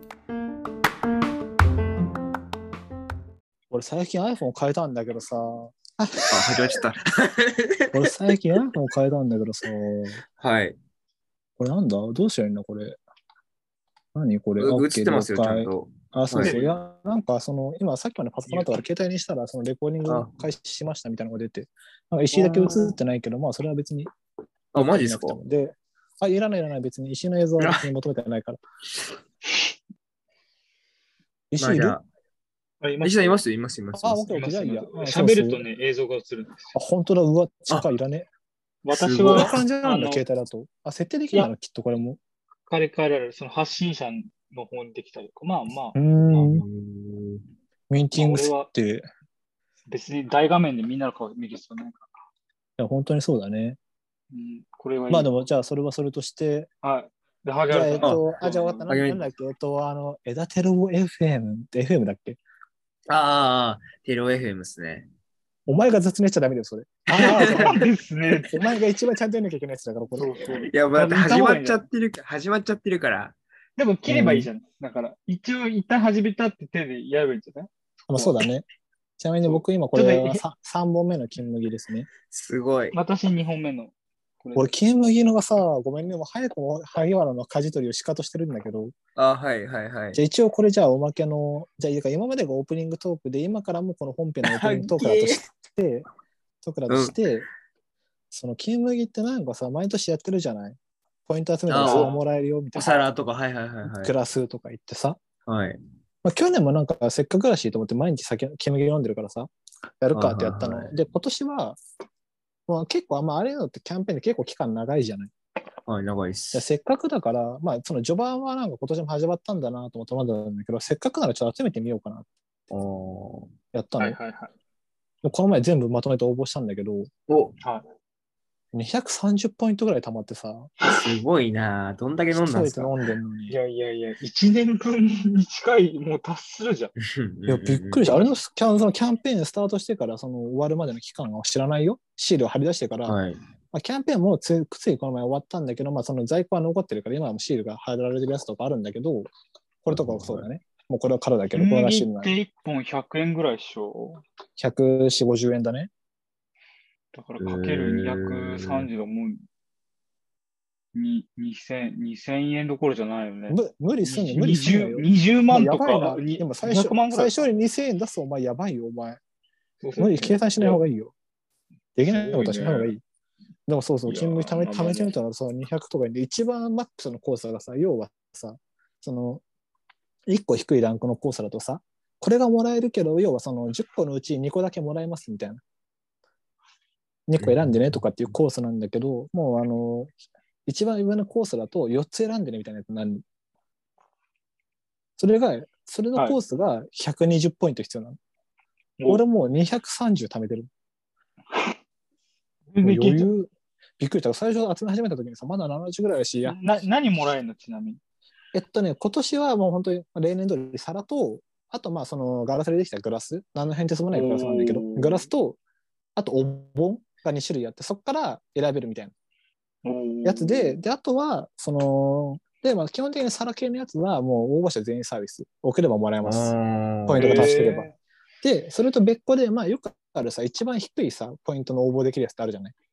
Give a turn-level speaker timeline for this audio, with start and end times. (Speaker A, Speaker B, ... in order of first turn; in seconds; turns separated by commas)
Speaker A: 3.7-6.8, Speaker B: 6.3-8.3, Speaker A: 7.9-10.2, Speaker B: 10.4-10.8, Speaker A: 11.6-13.0, Speaker A: 14.1-24.1, Speaker B: 14.6-16.6, Speaker C: 16.4-16.8, Speaker B: 20.1-20.3, Speaker B: 22.3-23.0, Speaker B: 24.7-25.4, Speaker A: 24.8-28.6, Speaker B: 27.6-27.9, Speaker A: 31.5-32.0, Speaker B: 31.6-32.0, Speaker C: 32.8-33.4, Speaker B: 33.0-34.3, Speaker A: 34.0-35.6, Speaker C: 34.3-36.8, Speaker A: 36.8-38.3, Speaker C: 38.9-40.2, Speaker B: 38.9-39.6, Speaker A: 39.3-42.2, Speaker C: 42.7-46.0, Speaker A: 46.0-46.7, Speaker B: 46.3-47.5, Speaker A: 47.9-49.0, Speaker C: 48.2-48.7, Speaker C: 49.9-52.1, Speaker A: 52.8-53.8, Speaker C: 54.3-55.5, Speaker A: 55.1-56.7, Speaker C: 56.8-58.8, Speaker A: 57.7-62.4, Speaker B: 58.9-59.2, Speaker B: 63.1-65.1, Speaker A: 65.7-67.8, Speaker C: 67.1-68.6, Speaker B: 67.2-67.7, Speaker A: 68.5-70.5, Speaker C: 70.2-71.8, Speaker B: 70.7-73.4, Speaker C: 73.8-78.4, Speaker A: 74.1-74.5, Speaker A: 78.1-78.7, Speaker A: 79.2-82.1, Speaker C: 79.4-80.4, Speaker B: 82.3-83.0, Speaker C: 82.9-84.7, Speaker A: 84.5-88.9, Speaker B: 89.2-90.2, Speaker A: 90.2-96.0, Speaker B: 94.4-95.4, Speaker A: 96.6-97.5, Speaker B: 96.9-97.3, Speaker A: 98.3-103.0, Speaker B: 101.7-102.2, Speaker C: 101.8-102.2, Speaker B: 102.8-104.1, Speaker A: 103.9-105.2, Speaker B: 105.5-105.8, Speaker A: 106.2-111.8, Speaker B: 110.1-110.9, Speaker A: 112.7-115.3, Speaker B: 115.9-116.6, Speaker A: 116.5-122.3, Speaker B: 122.7-123.5, Speaker A: 123.7-124.2, Speaker C: 124.0-124.5, Speaker A: 125.2-127.1, Speaker B: 127.3-127.5, Speaker A: 128.7-130.7, Speaker B: 130.8-133.0, Speaker A: 132.3-133.6, Speaker C: 133.5-136.9, Speaker B: 137.0-138.2, Speaker A: 137.5-143.2, Speaker B: 143.1-143.4, Speaker A: 143.7-149.3, Speaker A: 149.8-152.3, Speaker B: 149.9-150.4, Speaker C: 151.6-154.2, Speaker A: 154.6-155.9, Speaker C: 157.1-159.4, Speaker B: 157.4-158.9, Speaker C: 160.9-167.5, Speaker A: 163.5-169.2, Speaker C: 169.8-170.8, Speaker A: 170.0-171.1, Speaker A: 172.0-173.0, Speaker C: 172.1-172.9, Speaker A: 173.7-179.4, Speaker C: 174.1-175.1, Speaker A: 180.3-185.6, Speaker A: 187.3-190.1, Speaker B: 187.4-188.1, Speaker A: 190.7-193.2, Speaker A: 195.2-198.2, Speaker C: 199.0-199.2, Speaker A: 199.1-200.7, Speaker C: 202.7-203.3, Speaker A: 202.8-206.6, Speaker C: 206.4-208.0, Speaker A: 208.5-215.6, Speaker C: 214.1-215.3, Speaker A: 216.2-219.1, Speaker C: 219.8-220.8, Speaker A: 220.2-226.5, Speaker B: 226.2-227.6, Speaker A: 227.1-227.9, Speaker C: 227.2-227.9, Speaker A: 228.4-232.7